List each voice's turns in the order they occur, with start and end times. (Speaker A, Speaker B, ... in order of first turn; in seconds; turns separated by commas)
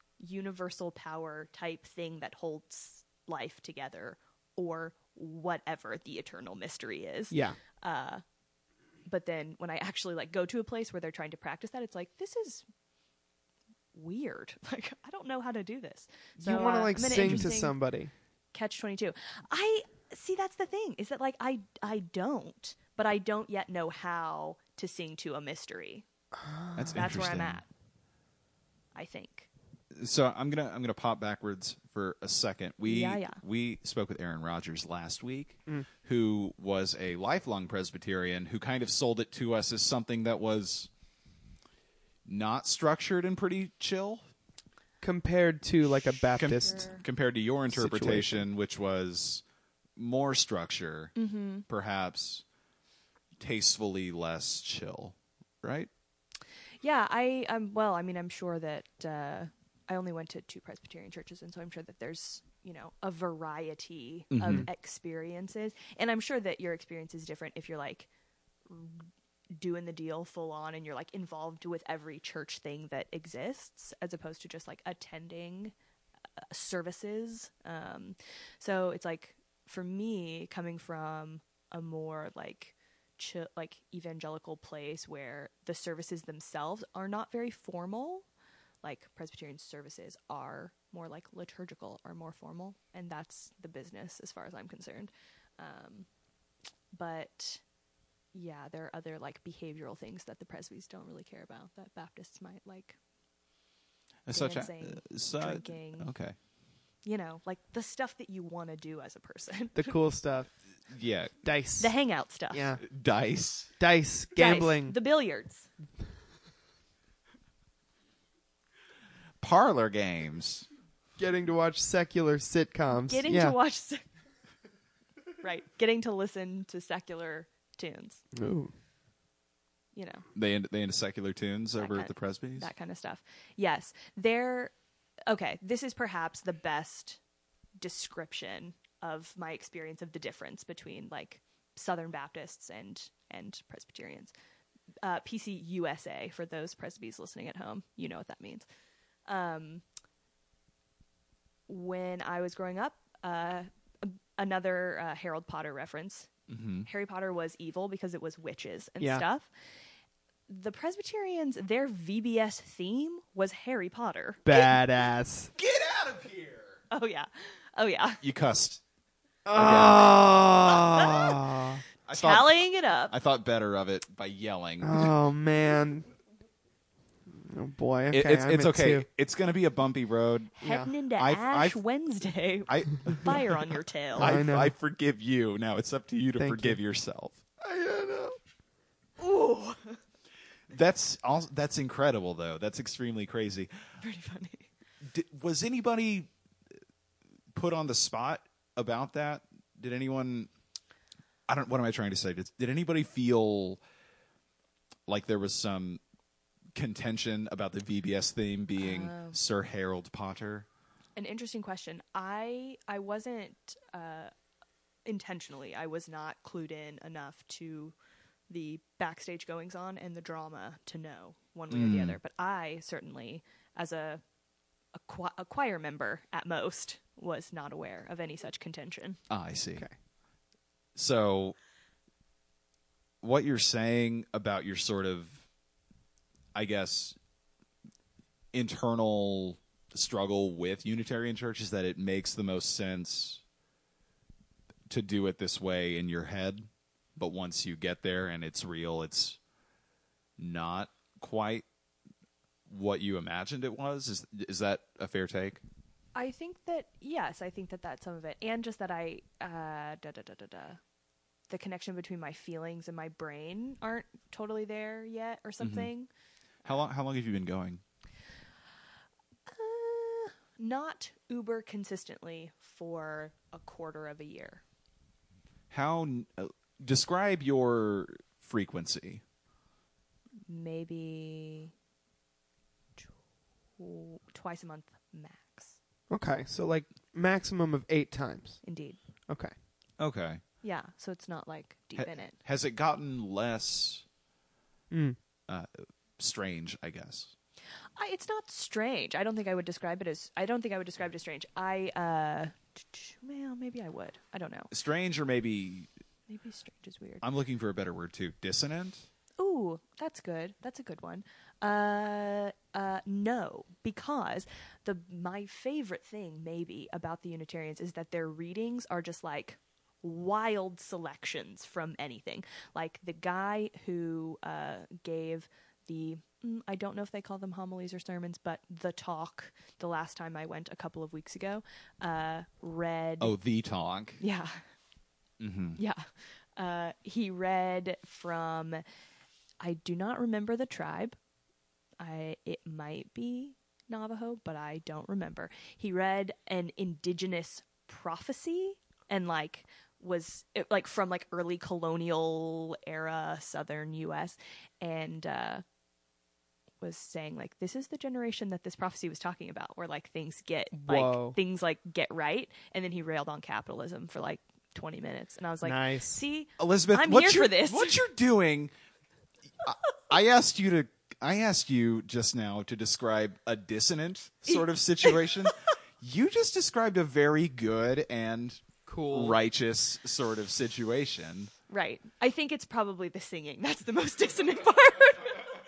Speaker A: 0.2-8.2, Speaker B: 7.3-7.6, Speaker A: 9.1-12.7, Speaker A: 13.9-17.8, Speaker B: 16.4-18.1, Speaker C: 17.2-17.5, Speaker A: 18.5-26.1, Speaker B: 26.4-27.1, Speaker C: 26.8-27.6, Speaker A: 26.9-27.7, Speaker A: 28.9-29.5, Speaker C: 29.9-40.9, Speaker A: 32.9-33.4, Speaker C: 42.3-44.2, Speaker B: 45.0-46.9, Speaker C: 46.4-49.4, Speaker A: 46.6-47.0, Speaker B: 47.7-48.5, Speaker C: 50.0-51.2, Speaker A: 51.2-51.6, Speaker C: 51.7-52.4, Speaker C: 53.4-55.9, Speaker A: 56.8-68.1, Speaker C: 64.3-64.7, Speaker A: 68.7-75.7, Speaker A: 76.5-88.3, Speaker A: 88.8-96.1, Speaker A: 96.9-97.6, Speaker A: 98.3-103.0, Speaker C: 104.3-106.4, Speaker A: 104.3-106.1, Speaker A: 107.0-110.0, Speaker B: 109.8-110.5, Speaker C: 110.9-111.3, Speaker B: 111.4-111.9, Speaker A: 111.8-112.6, Speaker B: 112.5-112.8, Speaker C: 112.8-113.7, Speaker B: 113.8-115.0, Speaker A: 114.4-115.7, Speaker C: 119.4-120.7, Speaker B: 121.2-123.6, Speaker A: 123.0-124.0, Speaker A: 125.4-128.2, Speaker B: 128.3-128.7, Speaker A: 129.9-130.2, Speaker C: 130.3-132.7, Speaker A: 131.8-134.7, Speaker A: 135.3-137.2, Speaker A: 137.8-144.3, Speaker A: 145.0-148.7, Speaker A: 149.3-149.8, Speaker A: 151.7-156.3, Speaker C: 156.5-156.9, Speaker A: 156.8-159.5, Speaker A: 160.5-164.8, Speaker B: 164.4-165.5, Speaker C: 165.6-166.8, Speaker A: 166.9-168.2, Speaker C: 168.2-168.8, Speaker B: 169.5-171.8, Speaker C: 169.5-170.1, Speaker A: 170.7-171.4, Speaker C: 172.1-175.1, Speaker A: 172.1-173.1, Speaker B: 174.8-176.1, Speaker B: 177.4-179.1, Speaker C: 178.1-180.6, Speaker A: 180.6-184.3, Speaker B: 180.6-180.9, Speaker C: 181.2-181.8, Speaker C: 182.7-187.6, Speaker B: 184.2-184.7, Speaker B: 186.4-186.8, Speaker B: 187.6-188.4, Speaker A: 189.2-190.0, Speaker C: 190.7-193.7, Speaker A: 194.0-194.7, Speaker C: 195.1-196.3, Speaker C: 197.5-200.5, Speaker C: 201.5-203.8, Speaker C: 205.1-206.0, Speaker C: 206.8-210.7, Speaker A: 208.8-209.4, Speaker A: 211.2-214.3, Speaker A: 215.1-217.9, Speaker A: 218.5-224.2, Speaker C: 221.7-222.2, Speaker A: 224.9-229.2, Speaker C: 229.3-229.9, Speaker C: 231.0-231.6, Speaker C: 233.2-235.4, Speaker C: 236.5-237.2, Speaker C: 238.5-243.4, Speaker C: 244.9-249.4, Speaker C: 250.4-251.7, Speaker C: 252.7-255.6, Speaker A: 256.1-260.8, Speaker A: 261.5-266.1, Speaker C: 265.6-265.9, Speaker C: 266.6-267.8, Speaker A: 269.5-274.6, Speaker C: 275.7-279.2, Speaker A: 280.5-281.7, Speaker A: 283.8-285.8, Speaker B: 286.1-288.6, Speaker A: 288.6-289.0, Speaker C: 290.0-290.4, Speaker A: 290.6-292.4, Speaker C: 292.0-294.0, Speaker B: 294.9-295.2, Speaker C: 296.2-297.3, Speaker A: 298.0-304.7, Speaker C: 304.7-305.9, Speaker A: 306.3-307.2, Speaker C: 307.2-309.1, Speaker A: 309.4-333.4, Speaker C: 333.2-334.2, Speaker A: 334.2-334.6, Speaker C: 335.4-335.8, Speaker A: 335.8-336.1, Speaker A: 336.6-338.8, Speaker A: 339.6-341.2, Speaker A: 342.0-355.6, Speaker A: 356.8-368.0, Speaker B: 360.7-361.4, Speaker B: 365.6-366.2, Speaker C: 366.6-368.7, Speaker C: 369.6-381.5, Speaker A: 374.5-375.5, Speaker B: 378.9-379.4, Speaker A: 381.7-385.4